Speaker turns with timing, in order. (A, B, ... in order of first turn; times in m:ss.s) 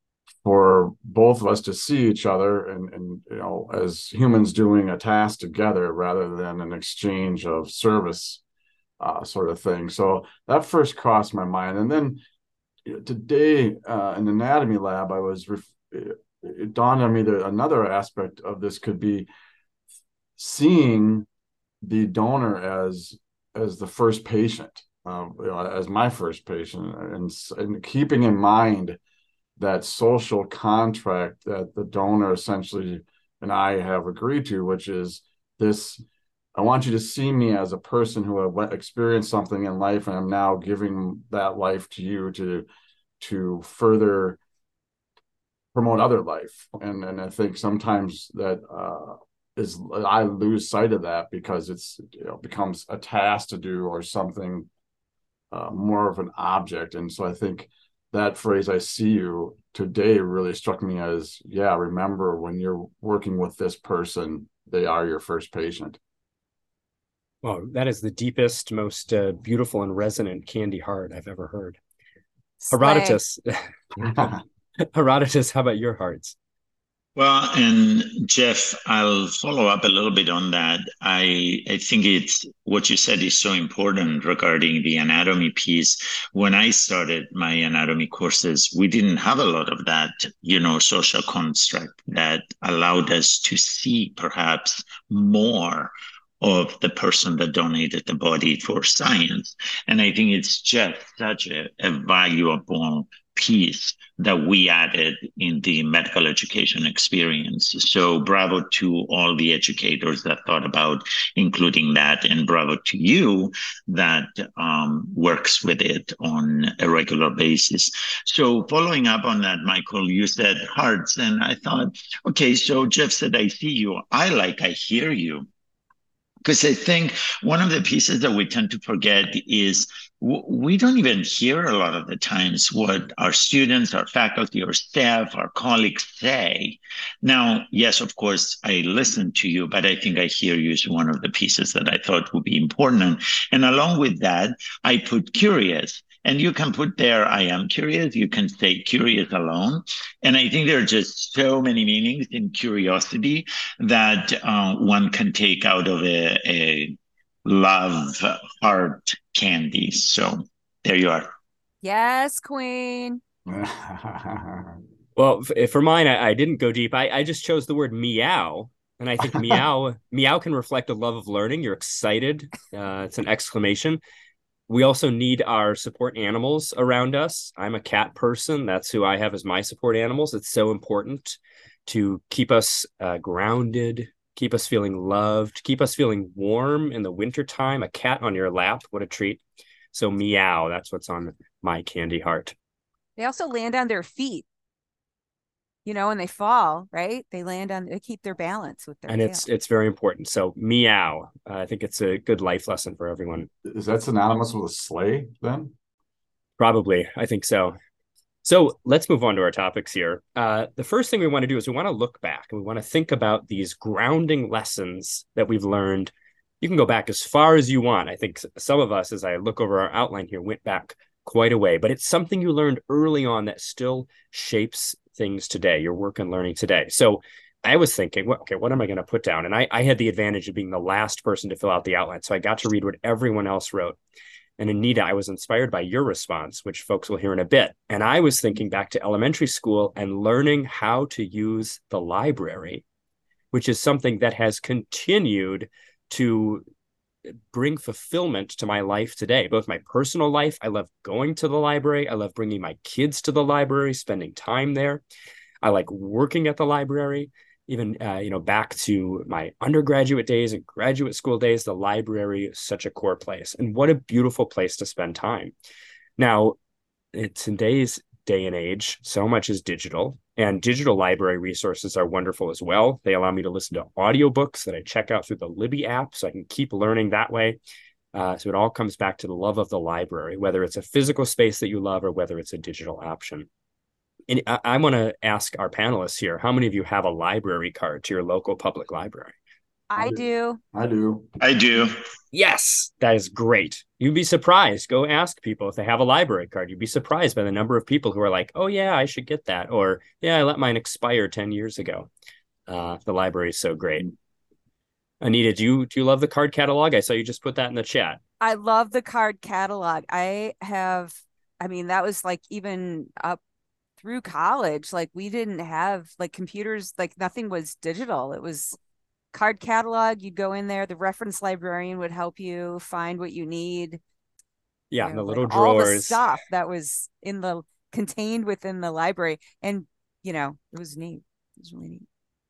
0:00.4-0:08.4 A
0:09.0-0:12.2 A
0:12.8-0:19.3 A
0:20.4-0:21.3 A
0:21.8-0:29.0 A
0:29.6-0:36.0 A
0:36.5-0:42.6 A
0:43.2-0:44.4 A
0:45.7-0:54.7 A
0:55.5-1:06.0 A
1:07.4-1:11.8 B
1:12.6-1:13.2 C
1:12.7-1:13.6 B
1:14.0-1:14.4 A
1:14.9-1:16.4 B
1:17.2-2:05.5 D
2:06.4-2:41.3 D
2:41.8-2:43.2 C
2:43.5-2:44.8 A
2:45.2-2:54.0 B
2:54.7-3:09.4 B
3:09.9-3:12.5 B
3:13.2-3:14.4 C
3:15.8-3:19.4 C
3:19.1-3:23.5 B
3:23.6-3:25.7 A
3:26.6-3:27.8 B
3:28.4-3:54.0 B
3:54.6-4:02.8 B
4:03.5-4:06.6 B
4:07.5-4:15.0 B
4:15.6-4:25.5 B
4:26.2-4:26.6 B
4:27.1-4:37.6 B
4:38.1-4:43.5 B
4:44.3-4:49.3 B
4:49.9-4:50.6 C
4:50.0-4:51.4 A
4:51.4-4:52.0 D
4:52.3-5:02.1 B
5:02.7-5:04.1 B
5:05.2-5:08.2 B
5:08.4-5:13.4 C
5:14.0-5:18.8 C
5:19.3-5:24.0 C
5:24.9-5:26.2 B
5:25.0-5:32.0 C